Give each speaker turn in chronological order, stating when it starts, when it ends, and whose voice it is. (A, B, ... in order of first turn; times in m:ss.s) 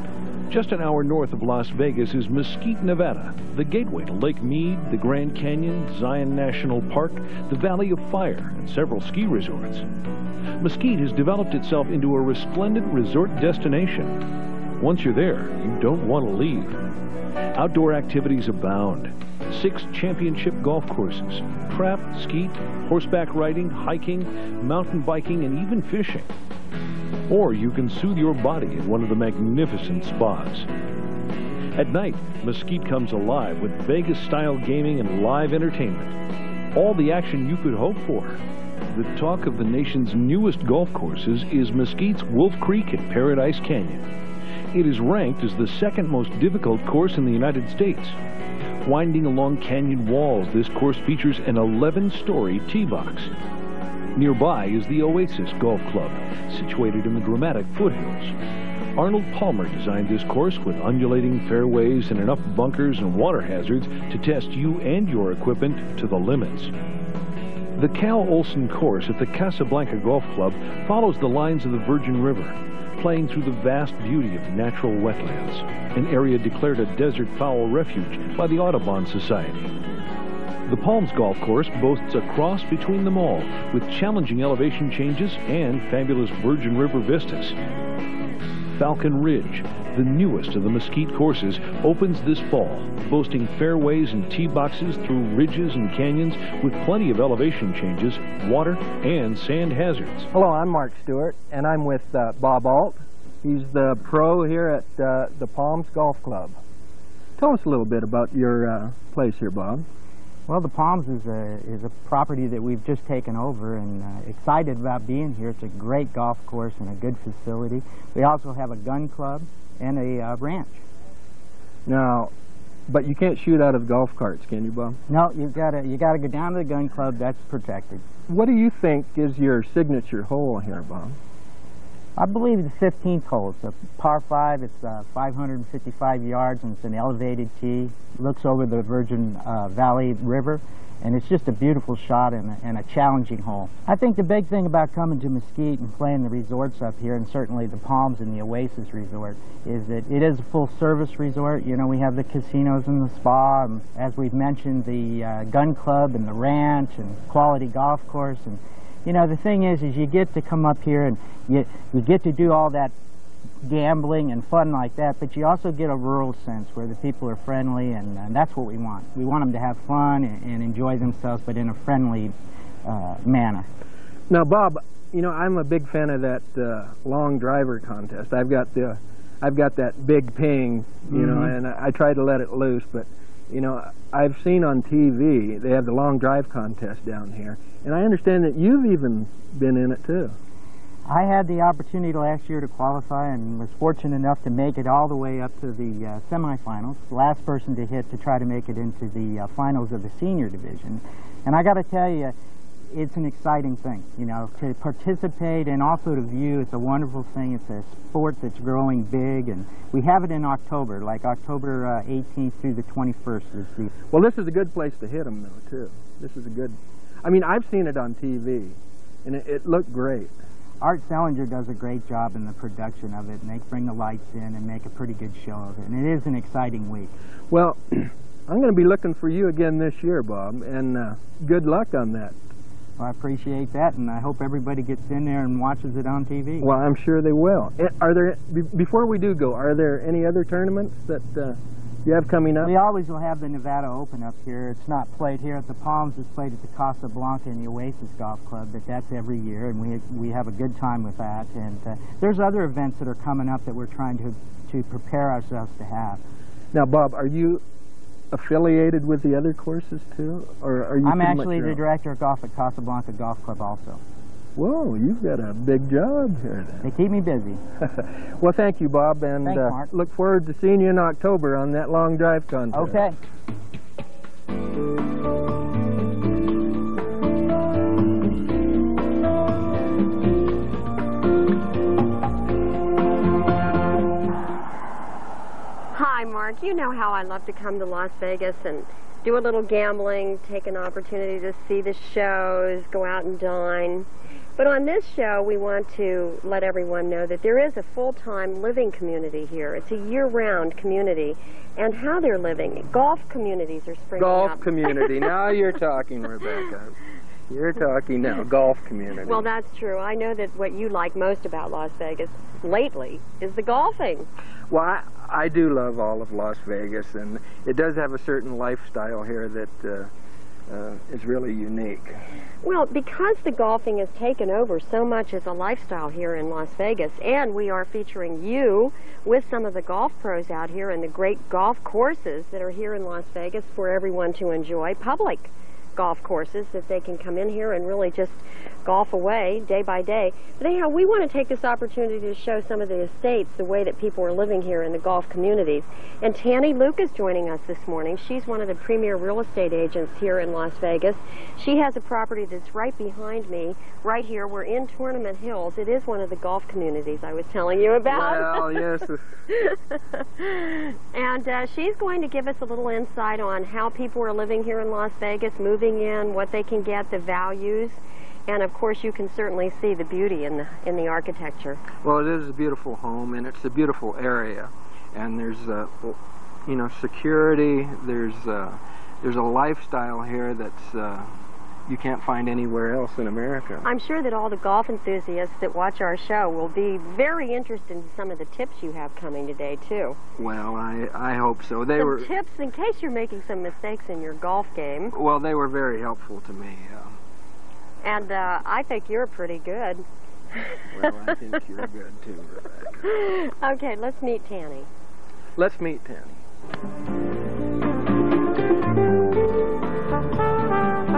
0:00.5-0:09.9 A
0:10.6-0:14.2 A
0:14.8-0:16.8 A
0:17.6-0:26.3 A
0:27.3-0:30.7 A
0:31.8-0:36.2 A
0:36.7-0:38.4 A
0:38.9-0:44.1 A
0:44.7-0:48.2 A
0:48.8-0:53.3 A
0:54.2-0:58.4 A
0:59.0-1:06.7 A
1:07.8-1:19.7 A
1:20.7-1:27.6 A
1:28.8-1:40.3 A
1:40.3-1:46.6 B
1:47.4-1:49.9 B
1:50.5-2:00.8 C
2:01.9-2:02.3 B
2:02.9-2:05.0 B
2:05.1-2:08.0 C
2:08.3-2:11.2 B
2:12.2-2:42.9 C
2:43.6-2:52.3 C
2:52.8-2:53.7 C
2:54.3-3:10.4 B
3:01.1-3:01.6 C
3:11.1-3:22.4 C
3:22.9-3:33.9 C
3:34.1-3:40.3 B
3:40.8-3:47.1 C
3:47.5-3:52.4 B
3:53.0-3:56.7 C
3:56.6-4:02.7 B
4:02.6-4:16.2 C
4:16.7-4:17.6 B
4:18.3-4:21.8 B
4:21.0-4:24.0 C
4:24.6-4:26.9 B
4:26.8-4:27.6 C
4:27.8-4:33.1 B
4:29.4-4:29.9 C
4:32.7-4:33.2 C
4:45.9-5:05.3 D
5:04.2-5:07.0 B
5:07.5-5:09.5 B
5:09.2-5:14.3 D
5:14.7-5:20.1 B
5:20.7-5:22.2 B
5:22.6-5:58.9 D
5:58.1-5:59.3 B
5:59.5-6:11.8 D
6:12.0-6:21.3 B
6:21.9-6:23.9 B
6:23.8-6:30.2 D
6:30.4-6:32.3 B
6:32.0-6:35.1 D
6:35.1-6:37.2 B
6:38.0-6:40.0 D
6:40.9-6:43.1 B
6:43.1-6:44.9 D
6:45.6-6:46.4 B